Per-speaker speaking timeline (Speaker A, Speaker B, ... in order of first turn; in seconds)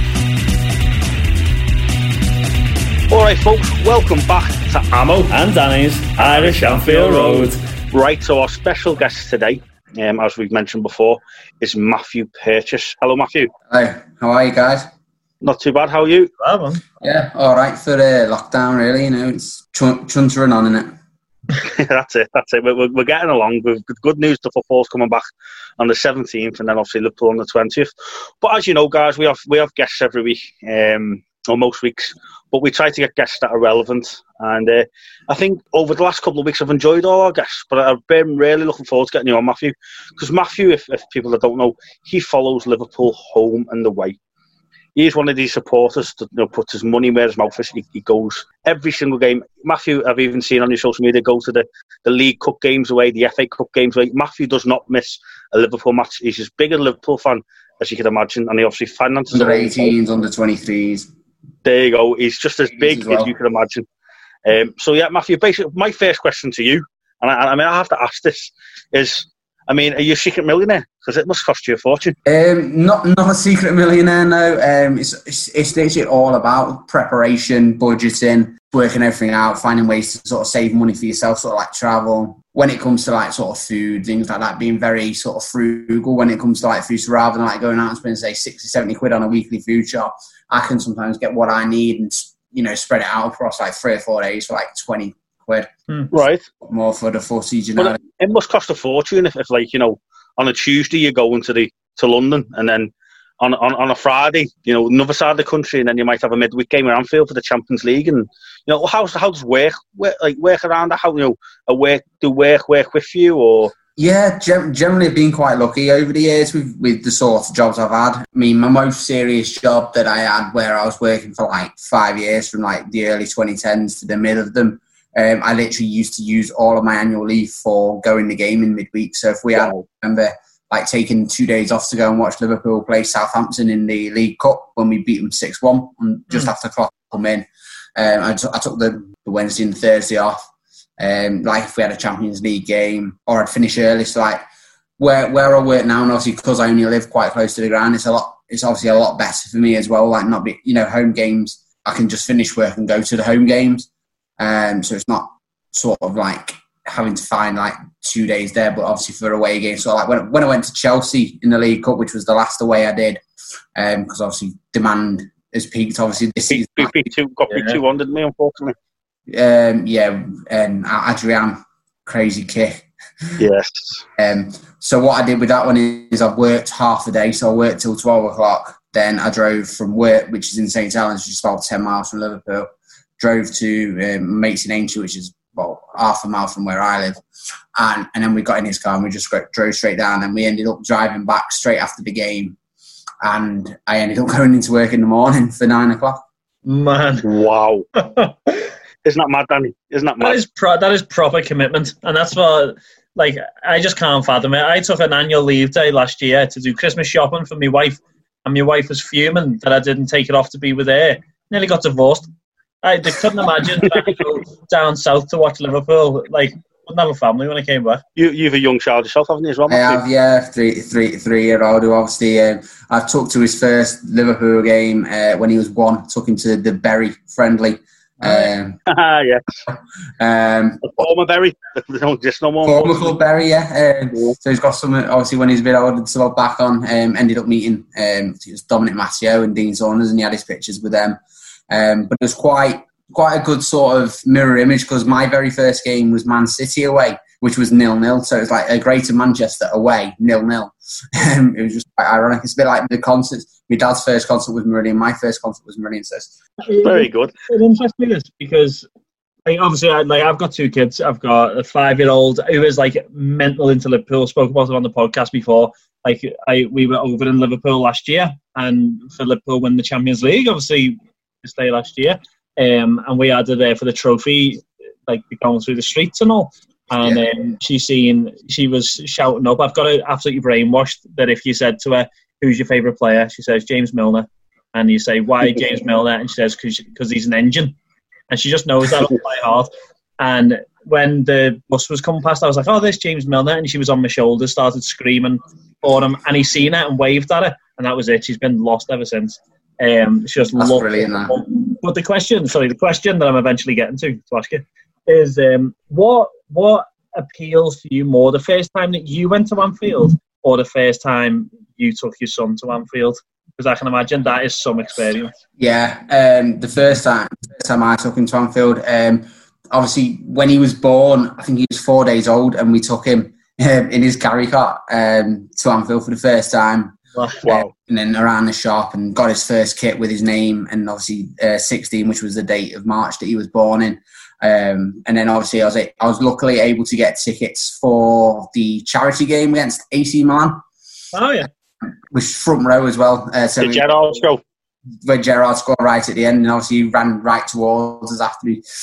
Speaker A: 3.1-5.3, 6.2-13.5, 15.4-16.3, 21.6-25.2, 25.8-44.2, 45.0-59.9, 61.6-63.9, 64.5-72.2, 96.1-96.4, 97.8-113.7, 129.6-129.8, 166.5-168.8, 173.4-174.0, 197.2-197.9, 199.1-200.4, 218.2-220.0, 228.9-229.6, 230.8-233.2, 256.8-257.3, 327.4-327.7, 343.6-344.4
Speaker B: 5.3-7.6, 16.4-16.8, 167.5-167.8, 196.7-197.3, 198.0-198.7, 200.2-212.3, 212.8-218.0, 256.6-258.9, 259.5-287.8, 288.3-315.3, 327.1-327.4, 341.1-341.5
Speaker C: 13.7-14.9, 17.0-20.9, 59.3-61.1, 62.8-63.3, 72.3-95.7, 96.6-98.0, 114.0-140.5, 141.0-144.4, 145.0-153.9, 154.4-163.2, 163.8-167.0, 169.3-173.4, 174.2-187.2, 187.8-192.6, 193.2-196.2, 219.7-228.8, 229.7-230.9, 232.6-241.2, 241.7-256.3, 300.6-301.4, 315.6-327.0, 327.5-340.6, 342.1-343.9, 345.0-348.6